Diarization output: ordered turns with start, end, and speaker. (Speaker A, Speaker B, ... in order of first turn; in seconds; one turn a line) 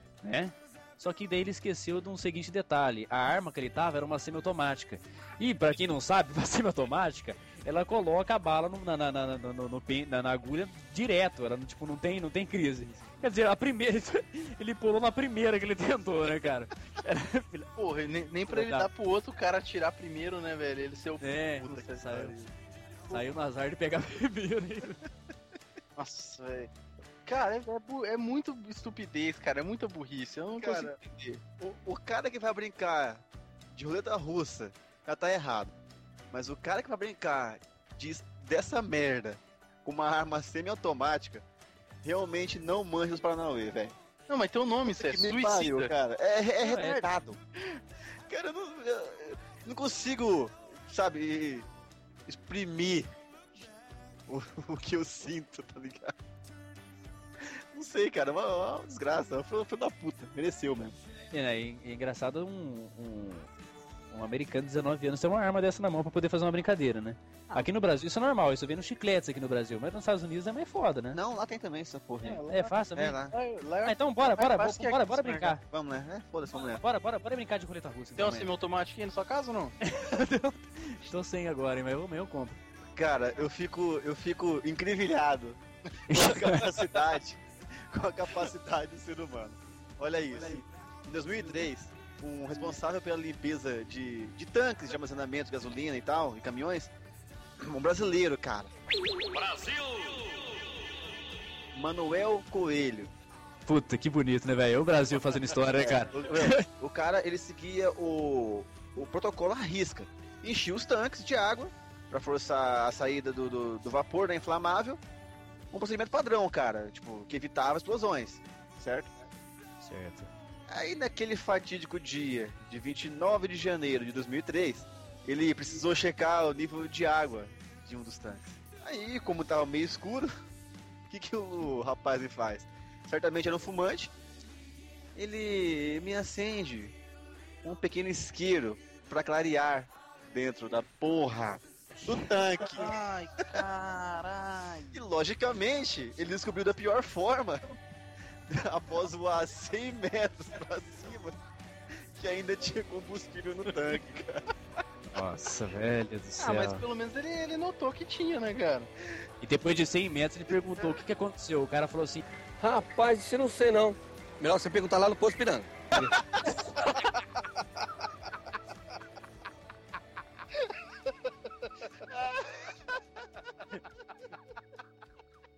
Speaker A: 0.2-17.7
Speaker B: 17.8-22.4
Speaker A: 18.5-18.9
Speaker A: 21.2-22.5
Speaker A: 23.1-25.0
Speaker B: 26.0-26.7
Speaker B: 27.3-31.4
Speaker C: 30.6-31.0
Speaker C: 31.6-35.7
Speaker C: 36.3-41.4
Speaker C: 42.0-44.0
Speaker B: 44.3-45.9
Speaker C: 44.9-47.4
Speaker A: 46.6-47.0
Speaker C: 48.3-51.7
Speaker C: 52.3-53.1
Speaker C: 54.3-56.1
Speaker C: 57.4-61.0
Speaker A: 61.3-63.5
Speaker A: 64.1-71.2
Speaker C: 71.1-72.4
Speaker B: 72.2-72.8
Speaker A: 72.2-73.2
Speaker C: 73.0-73.3
Speaker B: 73.3-75.5
Speaker A: 73.8-75.6
Speaker C: 75.7-76.8
Speaker A: 76.8-78.5
Speaker B: 78.2-79.7
Speaker A: 79.8-82.6
Speaker C: 83.0-96.9
Speaker A: 86.1-86.9
Speaker C: 97.6-98.7
Speaker C: 101.7-103.1
Speaker A: 103.7-106.6
Speaker C: 105.7-115.0
Speaker C: 115.7-119.1
Speaker A: 119.8-120.3
Speaker C: 120.7-130.3
Speaker C: 131.1-134.1
Speaker C: 135.2-137.0
Speaker C: 137.6-143.0
Speaker B: 142.8-145.0
Speaker C: 144.9-147.6
Speaker C: 148.5-151.4
Speaker C: 152.2-154.4
Speaker A: 155.1-156.8
Speaker B: 156.4-158.9
Speaker A: 159.4-162.2
Speaker D: 162.6-165.9
Speaker A: 166.0-167.1